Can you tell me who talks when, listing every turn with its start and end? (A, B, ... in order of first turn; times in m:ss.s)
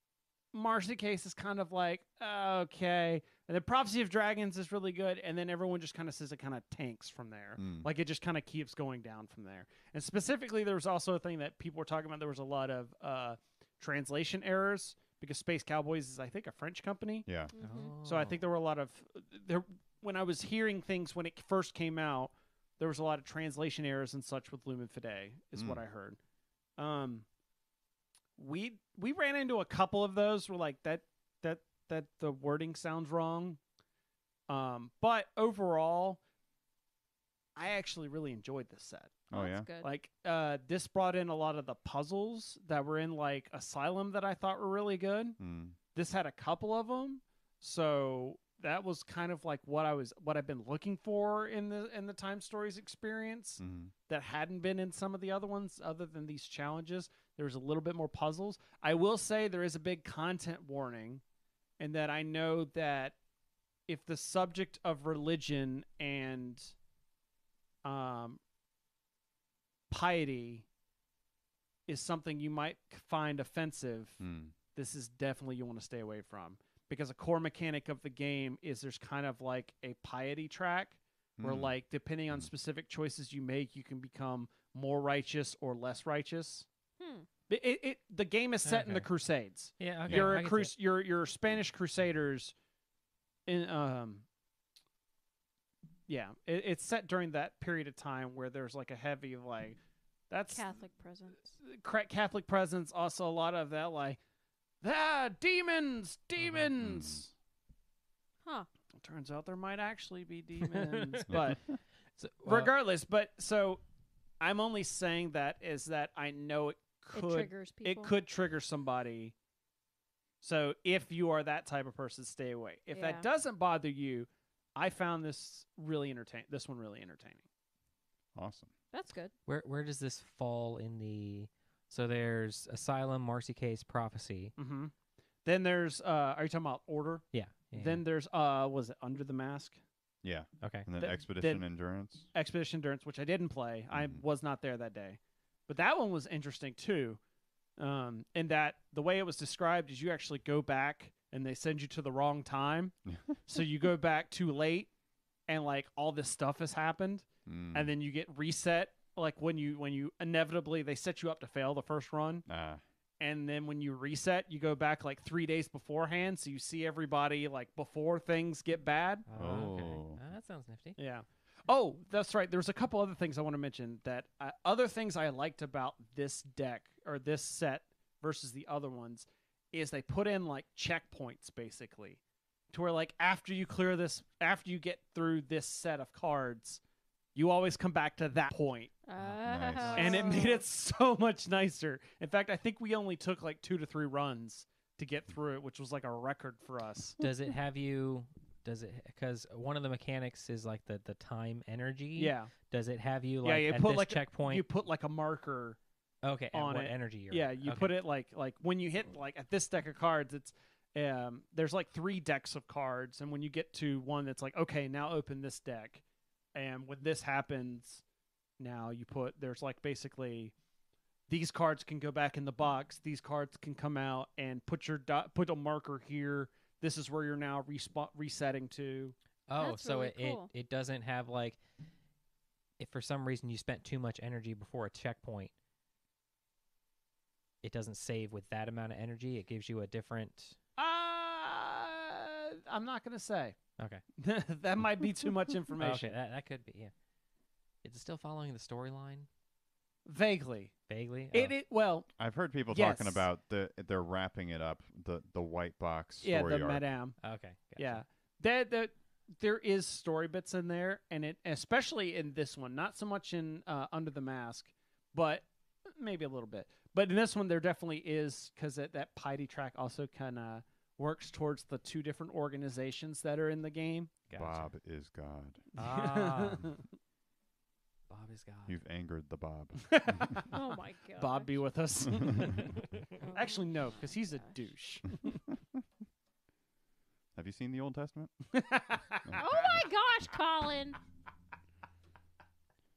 0:00.5-0:17.3 A
0:07.6-0:07.9 B
0:17.3-0:17.5 B
0:17.5-0:18.0 C
0:17.6-0:18.5 D
0:18.0-0:26.2 A
0:25.6-0:25.8 B
0:26.8-0:27.3 A
0:28.4-0:33.6 A
0:34.5-0:36.2 A
0:37.6-0:39.3 A
0:39.3-0:39.7 B
0:39.3-0:39.9 C
0:39.8-0:45.4 A
0:45.4-0:45.8 B
0:45.9-1:01.2 A
0:53.6-0:53.9 B
1:01.8-1:03.2 A
1:03.9-1:06.7 A
1:07.8-1:08.4 A
1:09.9-1:10.7 A
1:11.9-1:26.7 A
1:14.2-1:14.6 B
1:21.4-1:21.7 B
1:27.0-1:27.3 C
1:27.5-1:32.6 A
1:28.6-1:29.1 D
1:29.8-1:30.8 D
1:30.1-1:30.4 B
1:33.5-1:34.3 A
1:36.1-1:39.8 A
1:40.3-1:40.7 A
1:40.5-1:41.6 C
1:41.6-1:44.2 A
1:44.8-1:47.3 A
1:46.4-1:46.7 D
1:46.8-1:47.2 B
1:49.0-1:51.8 A
1:50.6-1:51.5 D
1:52.2-1:52.7 D
1:52.4-1:53.8 A
1:54.4-1:59.4 A
1:57.1-1:58.1 C
2:00.4-2:07.4 A
2:02.9-2:03.3 C
2:08.3-2:08.7 B
2:08.9-2:09.3 C
2:09.5-2:14.6 D
2:14.6-2:19.8 A
2:17.3-2:18.0 D
2:20.2-2:22.3 B
2:20.6-2:20.9 D
2:21.0-2:21.6 A
2:22.3-2:27.2 A
2:23.9-2:24.2 B
2:27.8-2:33.0 A
2:33.1-2:33.4 B
2:33.5-2:34.9 A
2:35.5-2:42.5 A
2:37.5-2:37.9 B
2:42.5-2:42.8 B
2:43.2-2:49.3 A
2:49.3-2:51.0 D
2:49.4-2:50.2 B
2:51.0-3:06.8 A
3:07.4-3:09.0 A
3:09.0-3:10.6 C
3:09.2-3:10.5 D
3:09.4-3:10.0 B
3:10.0-3:17.2 A
3:17.2-3:24.6 D
3:22.2-3:22.5 A
3:23.4-3:25.8 A
3:26.2-3:28.0 D
3:26.5-3:36.0 A
3:36.5-3:38.0 A
3:38.6-3:40.6 A
3:41.3-3:49.2 A
3:49.5-3:51.6 D
3:49.6-3:50.5 C
3:52.8-3:55.5 D
3:57.6-4:00.6 D
4:00.8-4:03.6 A
4:03.8-4:04.0 D
4:04.2-4:06.1 A
4:05.8-4:06.9 D
4:07.8-4:09.3 D
4:10.0-4:10.8 A
4:10.9-4:11.6 D
4:11.3-4:12.1 A
4:12.2-4:16.8 B
4:12.7-4:13.3 A
4:16.2-4:17.2 A
4:17.2-4:18.0 D
4:17.8-4:34.2 A
4:34.3-4:34.7 D
4:34.3-4:35.6 B
4:35.8-4:36.7 D
4:35.8-4:36.8 A
4:38.1-4:38.8 D
4:38.7-4:40.4 B
4:39.9-4:40.5 A
4:40.5-4:41.6 C
4:41.2-4:45.4 A
4:43.2-4:44.6 C
4:47.4-4:48.3 B
4:48.5-4:49.3 A
4:49.2-4:49.8 B
4:49.4-4:51.0 C